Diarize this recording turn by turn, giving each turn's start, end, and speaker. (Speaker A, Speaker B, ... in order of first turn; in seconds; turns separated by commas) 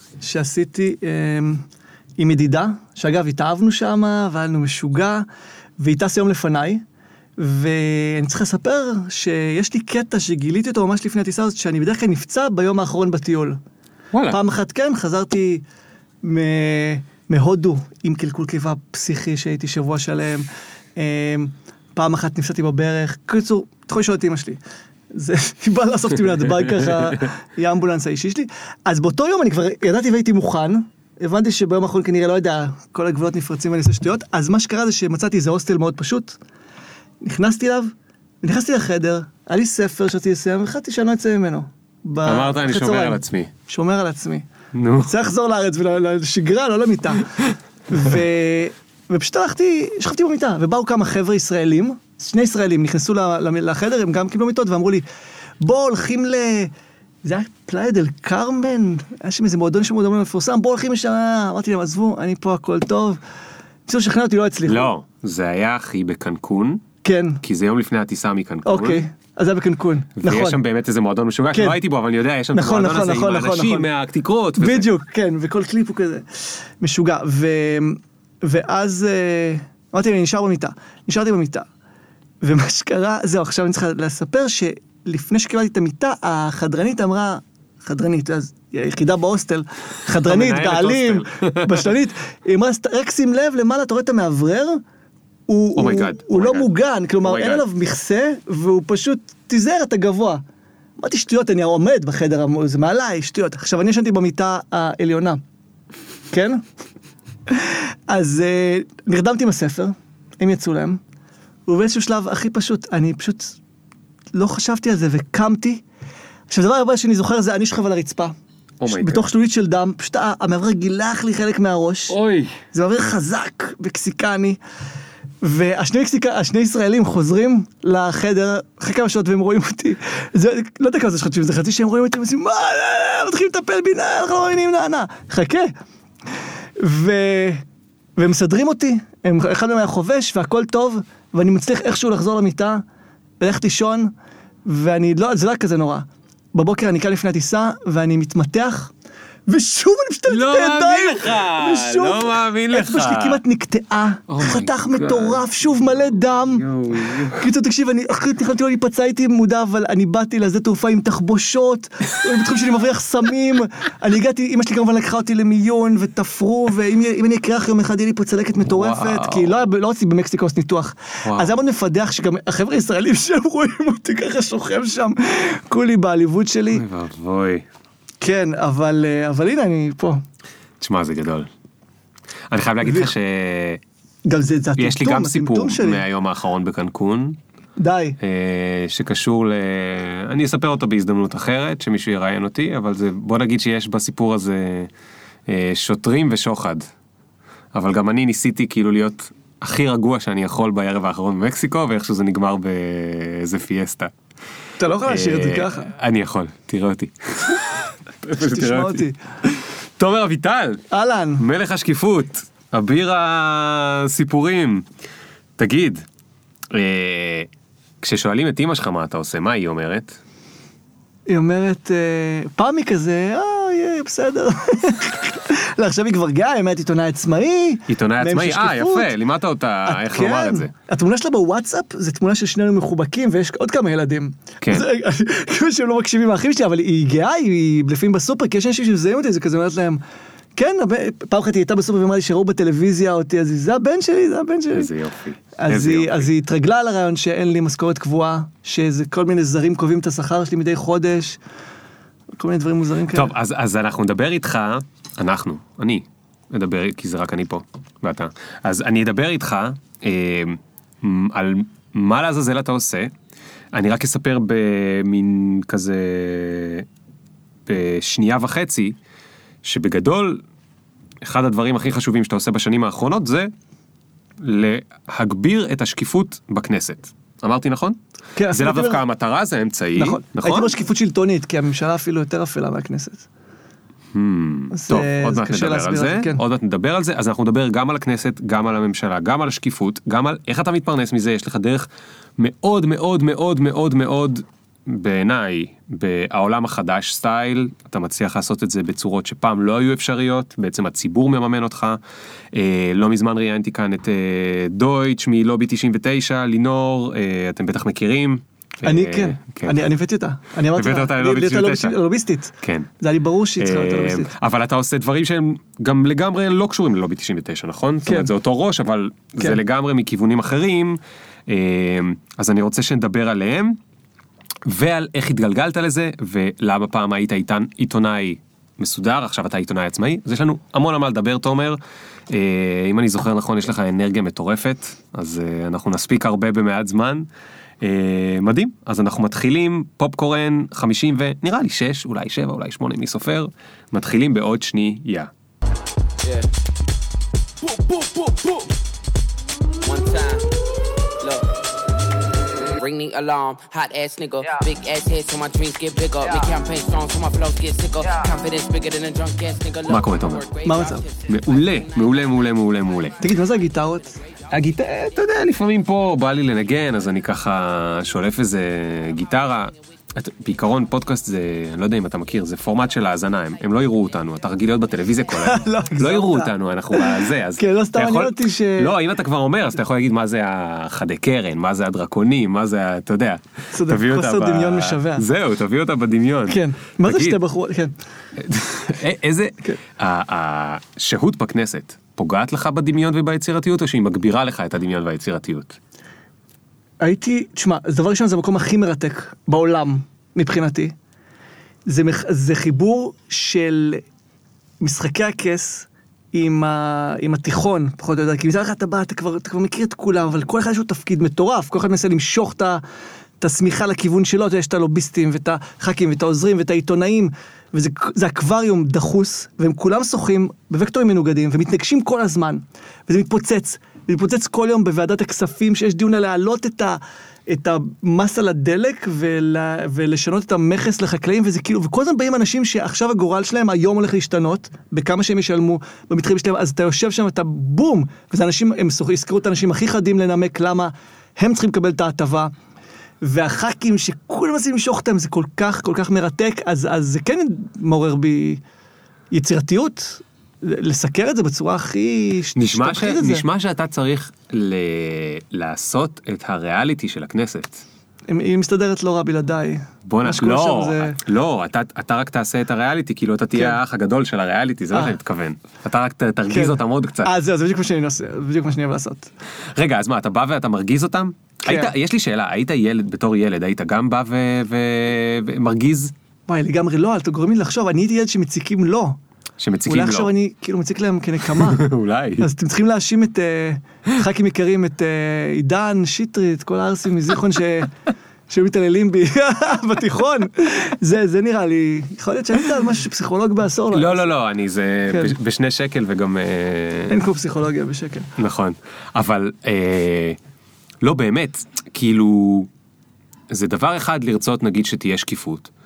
Speaker A: 0.2-1.6, Speaker A: 2.2-5.2, Speaker A: 5.8-6.8, Speaker A: 7.4-13.6, Speaker B: 14.1-14.4, Speaker A: 14.3-15.6, Speaker A: 16.2-24.6, Speaker A: 25.1-36.4, Speaker B: 26.8-27.1, Speaker A: 37.2-37.9, Speaker A: 38.4-44.5, Speaker B: 42.2-43.5, Speaker B: 44.7-45.2, Speaker A: 45.0-47.3, Speaker A: 47.9-55.0, Speaker A: 55.6-56.7, Speaker A: 57.2-63.2, Speaker A: 63.9-64.9, Speaker B: 64.7-66.8, Speaker A: 67.0-67.4, Speaker B: 67.4-69.0, Speaker A: 68.7-70.6, Speaker B: 70.2-74.9, Speaker A: 72.5-73.8, Speaker A: 74.6-81.7, Speaker A: 82.4-94.8, Speaker B: 90.2-91.9, Speaker A: 95.5-100.4, Speaker B: 95.7-96.7, Speaker B: 97.2-97.6, Speaker A: 101.0-105.4, Speaker A: 106.3-106.6, Speaker A: 107.5-111.0, Speaker A: 111.7-113.6, Speaker A: 114.3-115.8, Speaker A: 116.5-118.3, Speaker B: 118.8-119.2, Speaker A: 118.8-122.2, Speaker B: 122.1-122.6, Speaker A: 122.7-124.6, Speaker A: 125.4-135.7, Speaker A: 136.8-137.6, Speaker A: 138.2-142.8, Speaker A: 143.4-144.1, Speaker A: 144.7-148.9, Speaker A: 149.5-176.8, Speaker B: 150.3-153.4, Speaker B: 154.3-155.4, Speaker B: 156.5-157.4, Speaker B: 168.7-169.5, Speaker B: 171.2-171.5, Speaker B: 176.7-177.7, Speaker A: 178.2-180.2, Speaker B: 180.8-181.5, Speaker B: 182.5-183.8, Speaker A: 182.8-183.1, Speaker A: 184.2-186.0, Speaker B: 184.8-187.4, Speaker A: 187.8-188.2, Speaker B: 188.2-194.9, Speaker B: 195.5-196.9, Speaker B: 197.7-204.1, Speaker A: 204.8-205.9, Speaker B: 205.1-210.8, Speaker A: 208.3-209.2, Speaker A: 210.9-211.4, Speaker B: 211.4-214.9, Speaker B: 215.6-216.0, Speaker B: 216.7-217.5, Speaker B: 218.0-220.2, Speaker A: 221.3-229.1, Speaker B: 227.9-230.7, Speaker A: 229.8-240.0, Speaker B: 234.6-234.9, Speaker A: 240.6-244.9, Speaker B: 244.7-246.3, Speaker A: 245.6-251.4, Speaker A: 252.4-253.3, Speaker B: 253.1-263.1, Speaker B: 263.7-266.9, Speaker B: 267.6-268.9, Speaker B: 269.6-270.4, Speaker B: 271.2-273.5, Speaker B: 274.4-278.0, Speaker A: 278.4-279.0, Speaker B: 278.5-280.7, Speaker A: 279.9-283.3, Speaker B: 284.1-291.9, Speaker A: 284.7-286.4, Speaker B: 292.4-302.0, Speaker B: 302.5-309.9, Speaker A: 308.8-314.3, Speaker B: 310.7-312.0, Speaker B: 312.6-312.9, Speaker B: 313.6-323.8, Speaker A: 318.0-318.3, Speaker B: 324.6-337.3, Speaker B: 337.8-345.3, Speaker C: 349.8-350.5, Speaker C: 351.2-351.5, Speaker C: 352.6-363.1, Speaker B: 359.9-360.4, Speaker A: 360.6-361.0, Speaker B: 361.3-363.1, Speaker A: 363.2-364.2, Speaker C: 363.9-364.9, Speaker B: 364.5-387.4, Speaker A: 375.4-379.0, Speaker A: 383.7-385.2, Speaker A: 386.5-387.9, Speaker B: 388.4-395.8, Speaker A: 397.0-400.9, Speaker A: 401.9-404.0, Speaker A: 404.8-412.8, Speaker A: 413.4-442.5, Speaker A: 443.2-448.6, Speaker A: 449.3-453.4, Speaker B: 452.6-457.8, Speaker A: 458.3-461.2, Speaker B: 460.1-467.3, Speaker A: 464.9-465.2, Speaker A: 466.5-469.3, Speaker B: 469.7-476.1, Speaker A: 471.6-471.9, Speaker A: 476.5-479.2, Speaker B: 479.6-480.3, Speaker A: 479.9-481.8, Speaker B: 481.4-482.5, Speaker A: 482.4-487.9, Speaker A: 488.5-494.2, Speaker B: 493.9-497.2, Speaker A: 495.1-495.4, Speaker A: 497.1-498.3, Speaker B: 498.4-500.4, Speaker B: 501.0-502.7, Speaker B: 503.5-505.7